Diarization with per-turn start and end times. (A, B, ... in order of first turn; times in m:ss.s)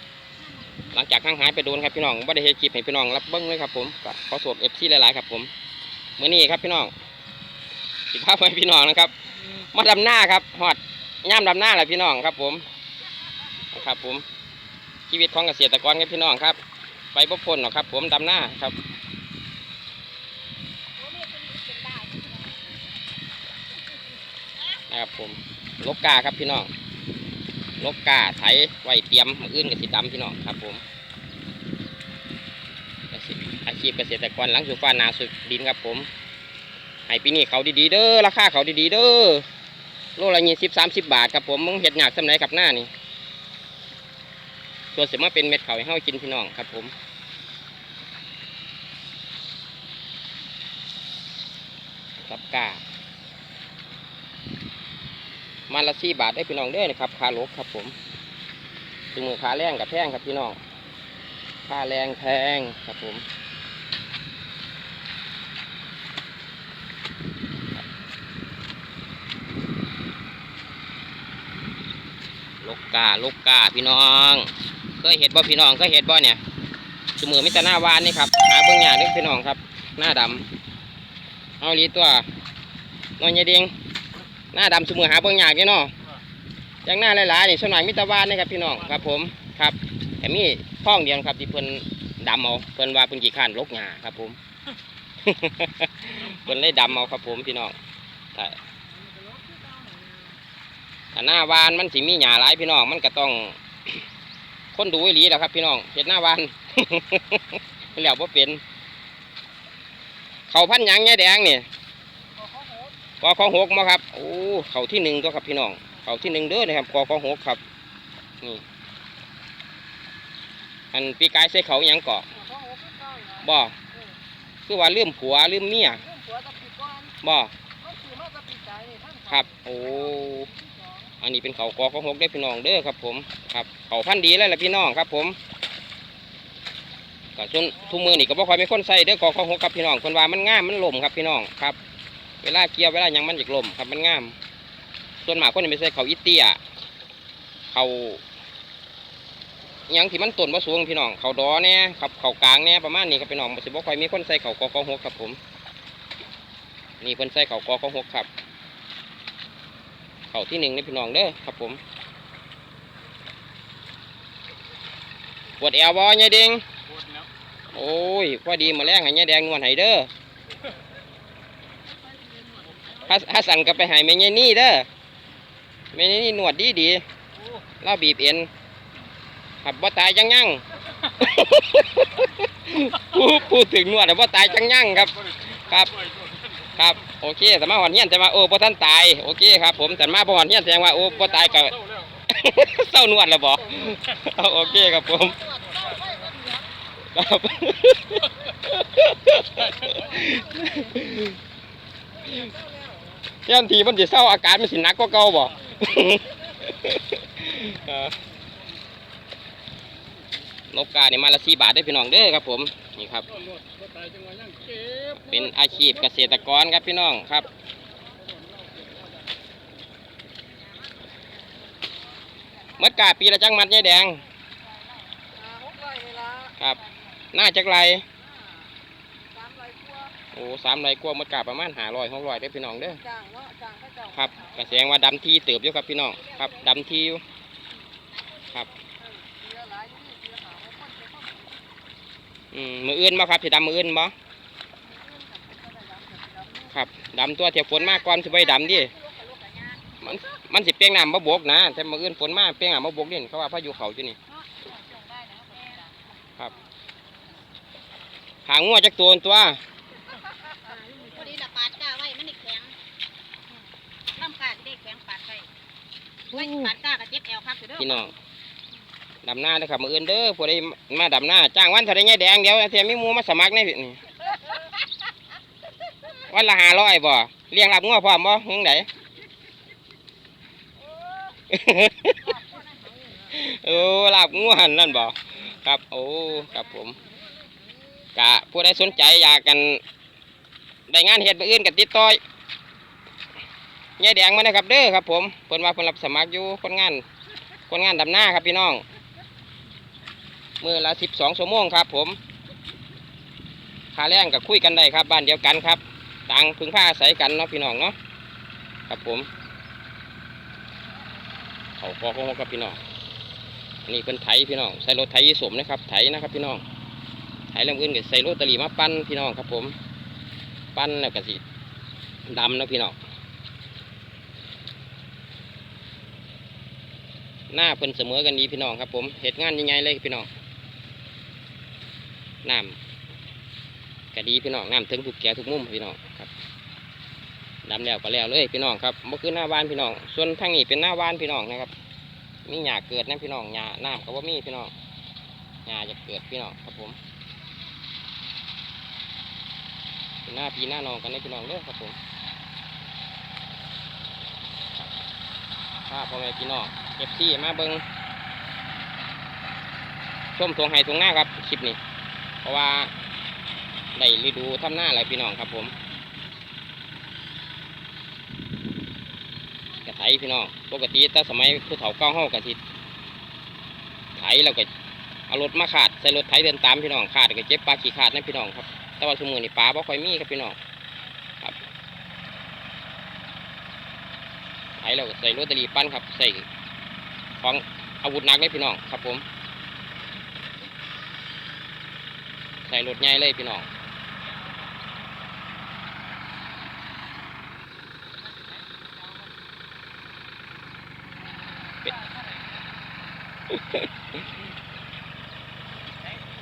0:00.4-0:00.9 A
0:00.9-0:05.5 B
0:06.2-0:06.9 B
0:08.1-0:12.6 B
0:13.7-0:14.2 B
0:15.1-0:16.6 B
0:17.1-0:18.8 B
0:21.0-0:22.6 A
0:24.9-0:26.7 B
0:27.8-0:30.8 B
0:33.1-0:36.1 B
0:37.1-0:39.4 B
0:40.2-0:42.9 B
0:44.9-0:46.9 B
0:52.3-0:52.8 B
0:55.7-0:57.9 B
0:59.1-1:00.6 B
1:01.7-1:03.2 B
1:12.6-1:16.4 B
1:17.2-1:20.5 B
1:21.6-1:22.3 B
1:23.2-1:23.7 B
1:24.5-1:25.9 B
1:26.8-1:34.4 B
1:35.2-1:37.8 B
1:39.2-1:40.1 C
1:41.1-1:44.0 B
1:44.7-1:48.6 B
1:50.5-1:51.7 B
1:53.2-1:57.6 B
2:00.9-2:02.5 B
2:02.6-2:03.3 C
2:03.4-2:03.8 B
2:04.6-2:06.0 B
2:06.1-2:07.1 C
2:07.2-2:07.5 B
2:07.9-2:09.2 C
2:09.2-2:10.5 B
2:11.2-2:15.4 B
2:17.4-2:21.8 B
2:22.4-2:24.4 B
2:25.2-2:26.6 B
2:27.7-2:28.2 B
2:29.9-2:35.4 B
2:37.0-2:38.3 B
2:40.3-2:41.8 B
2:45.6-2:46.6 B
2:47.7-2:50.1 B
2:53.0-2:54.9 B
2:55.9-2:57.0 B
2:57.8-2:58.5 B
2:59.6-3:06.0 B
3:06.7-3:15.6 B
3:15.9-3:16.5 C
3:17.1-3:21.4 B
3:23.4-3:28.1 B
3:30.7-3:33.3 B
3:35.1-3:37.5 B
3:42.7-3:44.2 B
3:45.4-3:46.5 C
3:46.5-3:48.0 B
3:49.4-3:50.1 C
3:50.3-3:53.0 B
3:53.1-3:54.0 C
3:54.1-3:57.2 B
3:56.2-3:56.6 A
3:58.1-3:58.9 A
3:59.3-4:01.5 C
4:02.5-4:04.1 B
4:05.0-4:06.6 C
4:06.6-4:08.9 B
4:07.7-4:09.9 A
4:10.0-4:14.2 B
4:14.5-4:15.9 A
4:18.4-4:19.6 B
4:20.6-4:22.8 A
4:24.1-4:25.5 A
4:26.3-4:28.0 A
4:27.8-4:28.1 B
4:29.2-4:34.0 B
4:36.2-4:38.9 B
4:40.9-4:41.4 A
4:41.5-4:42.4 B
4:42.4-4:43.1 A
4:43.2-4:47.0 B
4:48.1-4:49.8 B
4:50.9-4:52.2 B
4:54.0-4:57.0 B
4:57.7-4:58.8 B
5:00.6-5:02.2 B
5:03.9-5:08.0 B
5:08.9-5:09.3 B
5:11.8-5:12.8 B
5:13.8-5:16.6 B
5:17.5-5:19.7 B
5:20.7-5:21.4 B
5:22.2-5:23.0 B
5:27.5-5:30.3 B
5:32.4-5:32.8 B
5:34.1-5:36.3 B
5:37.6-5:41.7 B
5:42.4-5:44.7 B
5:45.6-5:47.0 B
5:50.2-5:52.0 B
5:55.9-5:57.8 B
6:00.4-6:01.8 B
6:02.4-6:02.9 B
6:03.9-6:05.7 B
6:09.8-6:12.6 B
6:14.2-6:14.7 B
6:15.3-6:20.6 B
6:24.8-6:26.5 B
6:27.4-6:29.2 B
6:32.6-6:33.7 B